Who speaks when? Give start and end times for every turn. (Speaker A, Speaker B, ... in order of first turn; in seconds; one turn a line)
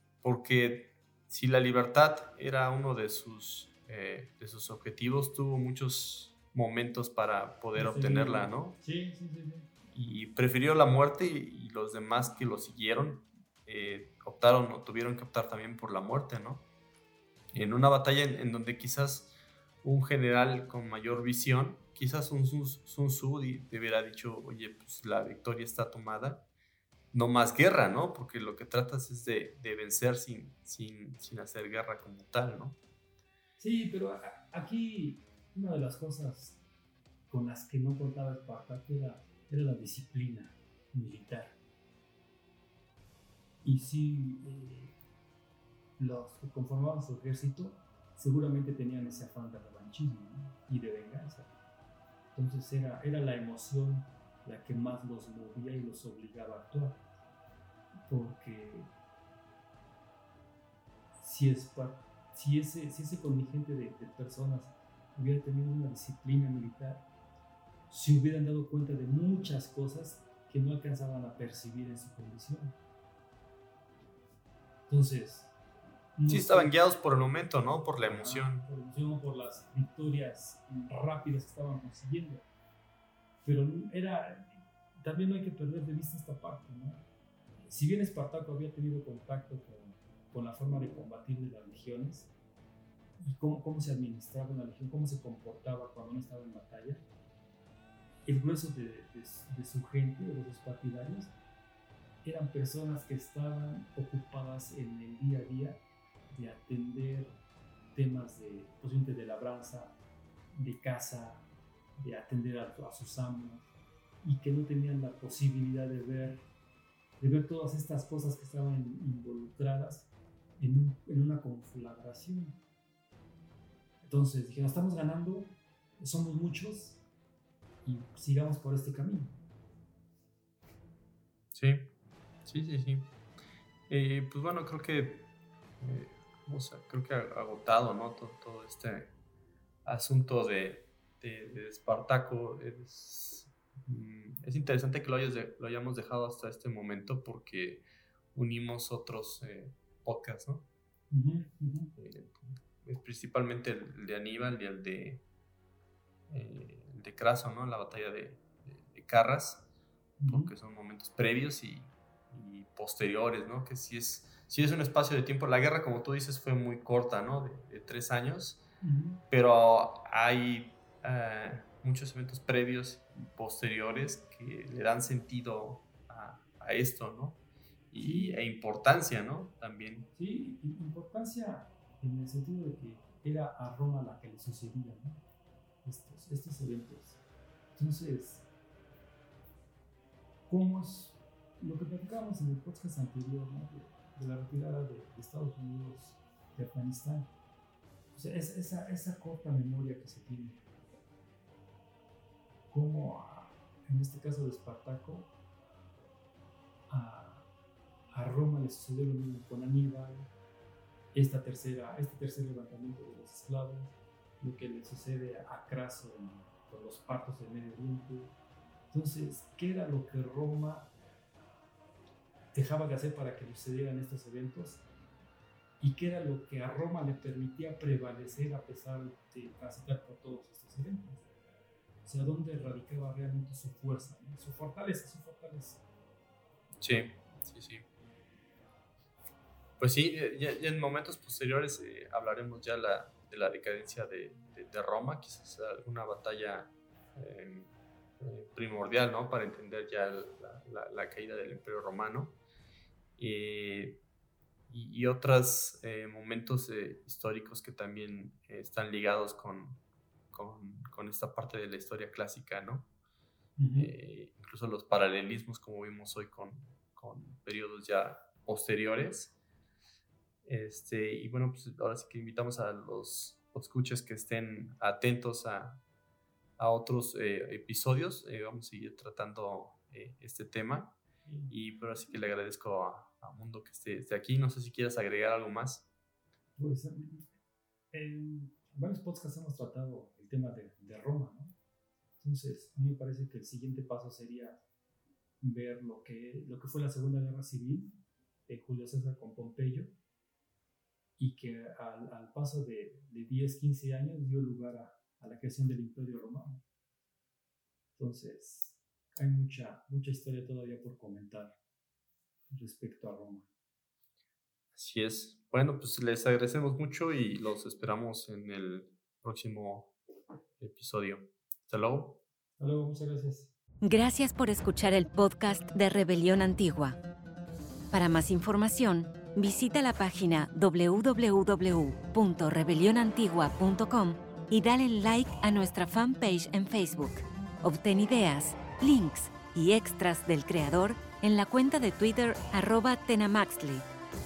Speaker A: 0.2-8.8
Speaker B: 7.7-9.7
Speaker A: 9.9-16.6
Speaker A: 17.5-26.5
Speaker A: 27.1-32.8
Speaker B: 33.6-36.6
Speaker B: 37.3-41.6
Speaker B: 43.6-45.0
Speaker B: 46.0-51.5
Speaker B: 52.3-57.0
Speaker B: 58.1-58.9
Speaker B: 61.2-67.1
Speaker B: 67.9-72.8
Speaker B: 74.9-75.5
Speaker B: 76.2-76.8
Speaker A: 76.3-78.7
Speaker B: 78.0-82.5
Speaker B: 83.4-87.1
Speaker B: 87.6-92.3
Speaker B: 93.2-97.1
Speaker B: 98.2-101.3
Speaker B: 102.2-107.4
Speaker B: 107.9-110.0
Speaker B: 110.5-111.5
Speaker B: 112.0-113.7
Speaker B: 114.2-116.5
Speaker B: 117.2-122.6
Speaker B: 124.0-127.0
Speaker B: 127.8-129.4
Speaker A: 131.5-131.9
Speaker A: 132.4-133.2
Speaker A: 133.9-139.1
Speaker A: 139.8-150.7
Speaker B: 151.1-151.9
Speaker A: 152.0-155.2
Speaker A: 156.3-159.7
Speaker B: 160.2-160.5
Speaker A: 160.3-168.7
Speaker B: 168.8-169.2
Speaker A: 169.3-180.1
Speaker B: 178.0-178.4
Speaker B: 180.2-185.2
Speaker B: 185.8-187.2
Speaker B: 187.8-188.5
Speaker B: 190.5-197.3
Speaker B: 198.2-200.7
Speaker B: 202.7-205.3
Speaker B: 206.9-207.5
Speaker B: 208.1-210.3
Speaker B: 211.1-218.4
Speaker B: 218.9-220.9
Speaker B: 222.5-224.9
Speaker B: 225.8-231.3
Speaker B: 232.0-235.8
Speaker A: 236.8-237.8
Speaker A: 239.8-252.4
Speaker A: 253.2-254.0
Speaker A: 254.7-262.9
Speaker B: 263.6-263.9
Speaker A: 263.8-269.4
Speaker A: 270.4-275.8
Speaker A: 276.6-281.0
Speaker B: 281.3-281.5
Speaker A: 281.5-285.9
Speaker B: 286.6-287.3
Speaker B: 287.9-291.6
Speaker B: 292.2-294.6
Speaker B: 295.4-299.9
Speaker B: 301.2-306.6
Speaker B: 308.0-311.6
Speaker B: 312.5-313.5
Speaker A: 314.8-319.9
Speaker A: 320.6-322.2
Speaker B: 322.6-323.5
Speaker C: 323.8-327.0
Speaker C: 327.9-343.9